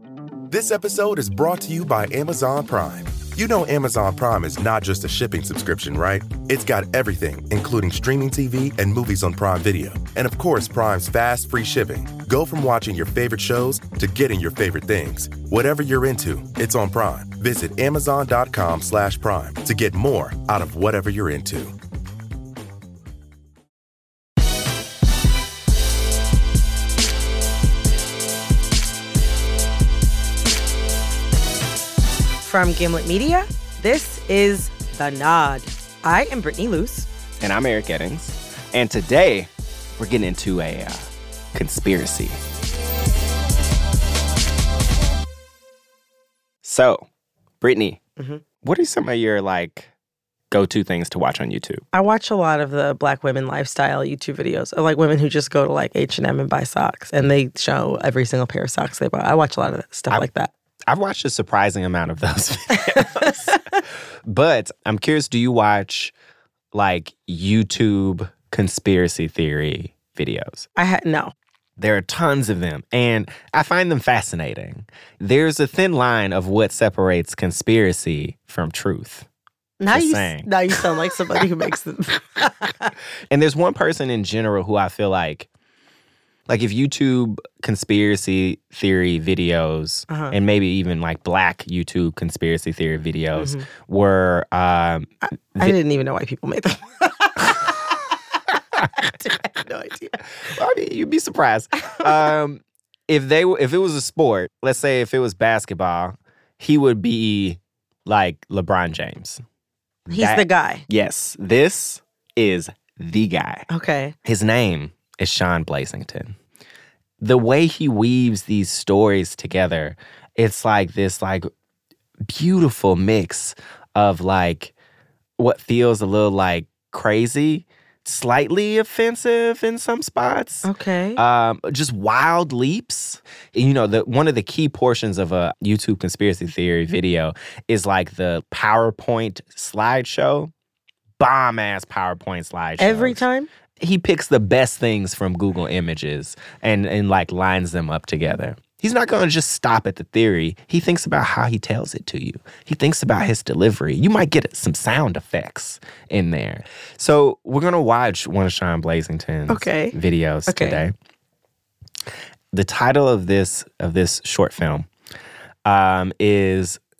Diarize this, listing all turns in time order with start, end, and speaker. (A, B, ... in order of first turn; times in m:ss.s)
0:00.5-0:21.7 A
0:32.4-0:37.1 B
0:37.4-0:42.4 C
0:46.6-0:47.1 C
0:47.6-0:48.0 C
0:48.2-0:48.4 B
0:48.6-0:49.9 C
0:50.5-0:51.8 C
0:51.9-1:00.5 B
1:00.9-1:06.1 C
1:06.7-1:10.6 C
1:10.8-1:11.3 B
1:11.8-1:19.3 C
1:19.8-1:22.9 B
1:19.9-1:20.8 C
1:23.3-1:25.5 C
1:26.5-1:35.8 C
1:30.1-1:30.4 B
1:33.4-1:33.7 B
1:35.6-1:40.2 B
1:40.5-1:49.4 C
1:50.1-1:53.7 C
1:50.1-1:50.8 B
1:53.7-1:54.1 B
1:54.2-1:56.4 C
1:57.2-2:01.5 C
2:02.3-2:04.7 C
2:05.4-2:20.5 C
2:10.6-2:11.2 B
2:21.2-2:23.2 C
2:22.8-2:23.5 B
2:23.8-2:40.9 C
2:39.5-2:40.0 B
2:40.5-2:40.8 B
2:42.5-2:44.9 C
2:45.6-2:46.8 C